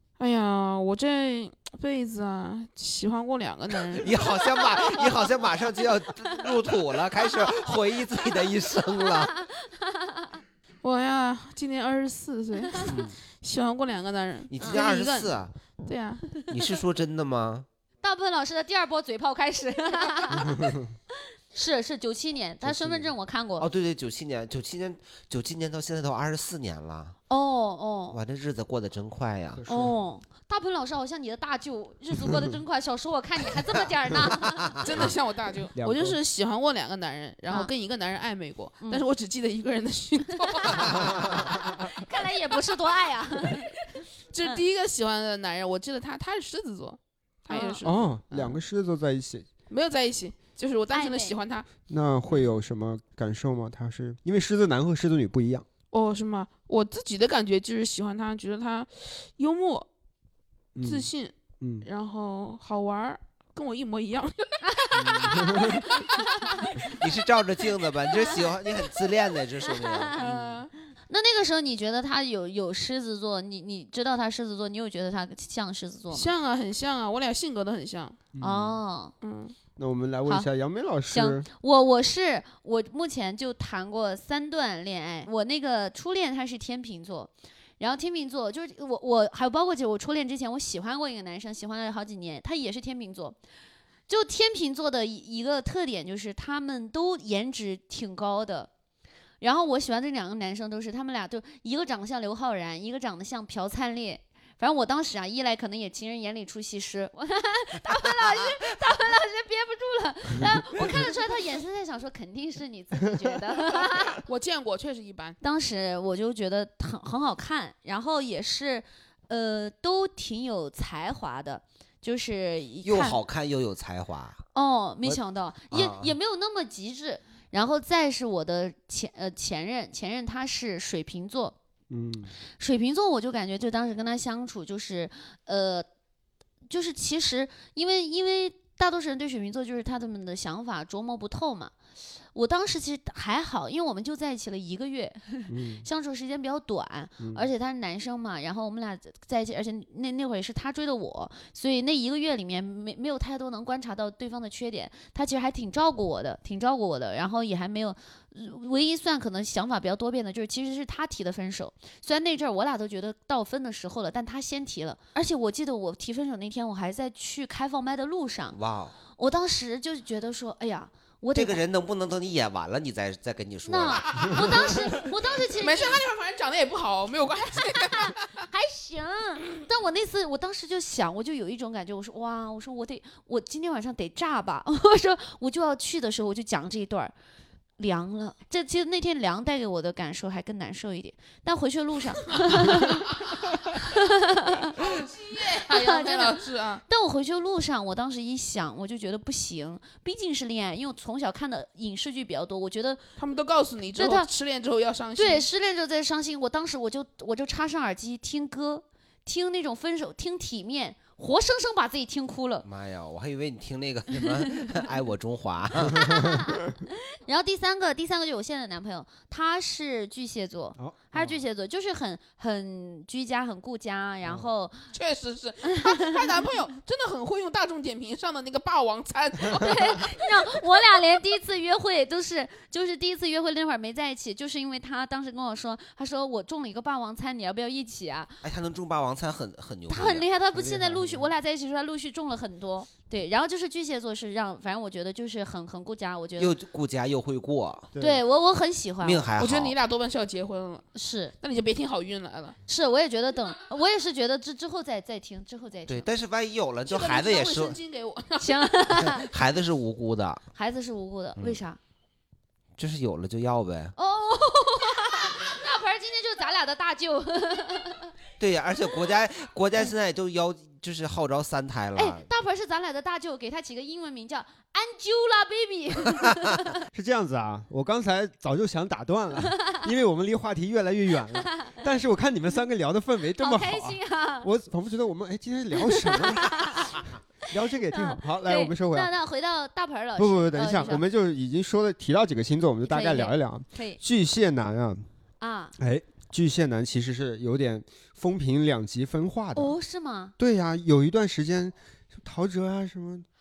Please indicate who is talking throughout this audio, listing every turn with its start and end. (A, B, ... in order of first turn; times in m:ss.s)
0:00.2-0:04.6 A
0:03.9-0:09.3 B
0:09.2-0:10.4 C
0:10.8-0:16.3 A
0:12.8-0:13.1 B
0:14.5-0:15.5 B
0:14.6-0:14.9 C
0:16.5-0:17.6 B
0:18.0-0:20.8 C
0:20.5-0:20.8 D
0:21.5-0:23.7 C
0:22.6-0:23.1 D
0:23.6-0:27.2 B
0:27.3-0:28.2 C
0:28.1-0:29.6 B
0:29.5-0:30.0 D
0:29.7-0:34.8 C
0:34.6-0:35.0 B
0:34.8-0:41.7 A
0:35.7-0:36.2 D
0:40.5-0:43.8 C
0:44.3-0:48.6 A
0:47.5-0:47.8 C
0:47.8-0:49.5 D
0:49.7-0:51.7 A
0:50.9-0:51.4 C
0:51.9-0:55.6 D
0:55.9-0:59.9 A
1:00.8-1:01.9 D
1:00.8-1:07.0 A
1:04.7-1:06.7 C
1:04.9-1:05.9 D
1:06.9-1:10.2 B
1:10.1-1:10.7 A
1:10.2-1:10.6 D
1:11.1-1:16.3 C
1:16.1-1:18.2 A
1:18.3-1:18.8 D
1:18.4-1:19.1 C
1:19.2-1:19.5 A
1:19.8-1:21.5 D
1:21.1-1:33.4 C
1:34.1-1:38.7 C
1:39.4-1:54.2 C
1:54.2-1:55.4 A
1:55.4-2:03.2 C
2:02.8-2:04.4 B
2:04.5-2:11.5 C
2:05.7-2:06.1 B
2:11.9-2:12.3 D
2:12.6-2:15.8 C
2:16.7-2:21.7 C
2:22.3-2:48.6 C
2:25.5-2:25.8 D
2:27.2-2:27.4 D
2:48.5-2:48.9 B
2:49.1-2:51.6 C
2:51.3-2:54.7 B
2:53.6-2:56.0 C
2:54.0-2:58.3 A
2:57.9-3:07.1 C
3:07.8-3:15.0 C
3:14.7-3:16.8 A
3:15.5-3:23.0 C
3:23.2-3:25.4 A
3:24.0-3:24.3 C
3:25.2-3:32.6 C
3:32.6-3:36.2 B
3:35.9-3:36.6 C
3:37.1-3:44.9 C
3:40.8-3:41.3 D
3:44.9-3:50.5 A
3:45.6-3:46.4 C
3:49.6-3:58.4 C
3:58.4-4:00.2 B
3:59.9-4:06.5 C
4:00.5-4:01.3 D
4:06.4-4:07.9 B
4:07.9-4:08.2 D
4:08.0-4:09.3 C
4:09.0-4:09.8 B
4:09.4-4:10.8 A
4:10.9-4:11.3 C
4:11.4-4:12.6 A
4:12.7-4:16.1 C
4:15.9-4:17.8 B
4:16.8-4:18.7 A
4:18.4-4:19.3 C
4:19.0-4:20.4 B
4:20.5-4:21.8 C
4:22.8-4:23.9 B
4:24.0-4:28.1 C
4:28.4-4:32.3 B
4:32.0-4:36.8 C
4:36.9-4:49.1 D
4:39.4-4:39.8 C
4:41.4-4:41.8 C
4:43.4-4:44.5 C
4:45.8-4:47.0 C
4:47.9-4:51.0 C
4:50.2-4:55.0 D
4:52.8-4:54.0 C
4:55.4-4:55.7 C
4:55.8-4:59.8 D
4:59.6-5:00.3 C
5:00.4-5:03.2 D